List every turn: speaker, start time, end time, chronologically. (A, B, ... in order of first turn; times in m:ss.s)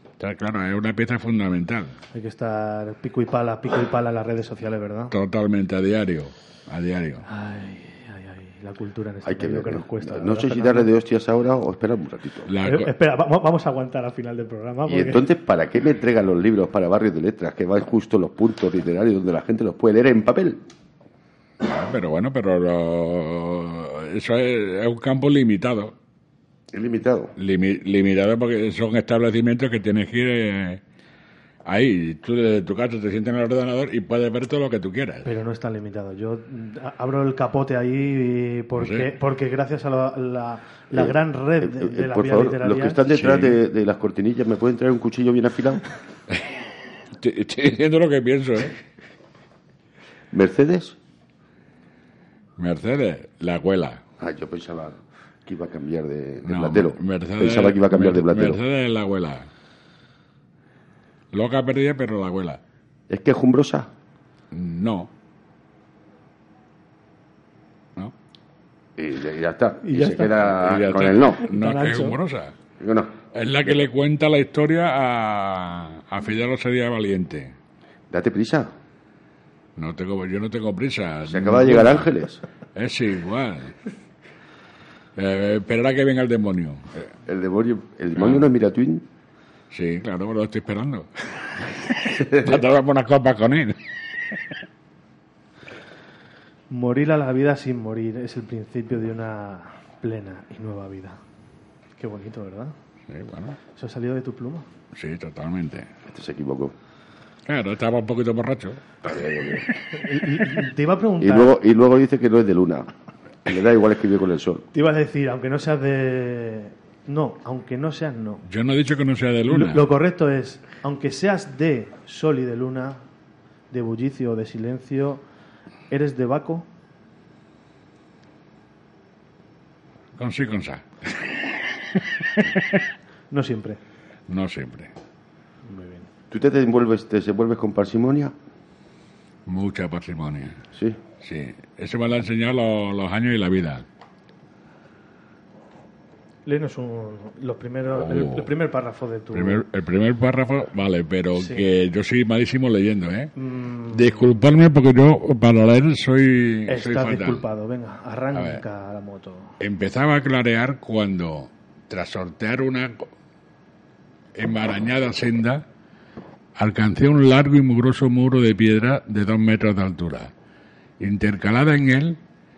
0:00.2-0:01.9 A
0:02.1-0:05.1 B
0:05.1-0:07.2 A
0:07.2-0:10.9 B
0:09.2-0:12.5 C
0:12.5-0:12.9 A
0:12.6-0:15.2 B
0:14.9-0:20.6 C
0:21.6-0:25.9 A
0:26.7-0:27.3 C
0:27.4-0:30.8 A
0:31.6-0:35.2 A
0:35.2-0:43.0 B
0:38.8-0:39.1 A
0:40.9-0:45.9 C
0:43.1-0:43.6 A
0:47.1-0:48.8 A
0:50.3-0:51.0 C
0:52.6-0:54.0 A
0:54.2-0:58.6 C
0:56.4-0:59.5 A
1:01.3-1:02.6 A
1:03.1-1:03.9 C
1:04.5-1:05.1 A
1:09.0-1:11.5 C
1:09.8-1:10.3 B
1:10.3-1:12.5 A
1:11.4-1:12.2 B
1:12.8-1:13.1 C
1:13.3-1:17.5 A
1:18.1-1:18.8 C
1:19.8-1:22.1 A
1:21.2-1:22.4 C
1:22.7-1:23.8 A
1:25.2-1:27.1 A
1:27.2-1:29.1 C
1:28.2-1:28.4 A
1:29.7-1:33.8 A
1:36.7-1:41.2 B
1:42.0-1:42.7 B
1:43.1-1:43.6 A
1:43.7-1:44.7 B
1:44.9-1:45.9 A
1:46.1-1:46.7 C
1:47.4-1:49.0 A
1:49.0-1:49.7 C
1:49.9-1:51.6 B
1:51.2-1:52.9 C
1:53.4-1:54.6 C
1:54.7-1:58.4 B
1:58.5-1:59.8 A
1:59.5-2:03.0 B
2:03.7-2:05.2 B
2:05.9-2:06.7 B
2:10.2-2:12.8 A
2:13.3-2:13.8 B
2:14.3-2:14.9 A
2:15.6-2:16.1 B
2:16.3-2:18.3 C
2:19.4-2:20.6 A
2:20.7-2:21.0 C
2:21.2-2:23.8 A
2:26.4-2:29.6 B
2:28.0-2:28.5 A
2:29.3-2:33.3 A
2:31.4-2:31.6 B
2:33.4-2:34.3 B
2:33.9-2:37.4 A
2:36.7-2:39.6 B
2:38.3-2:38.6 A
2:39.6-2:43.1 A
2:44.4-2:45.6 A
2:46.6-2:50.3 A
2:51.0-2:52.2 A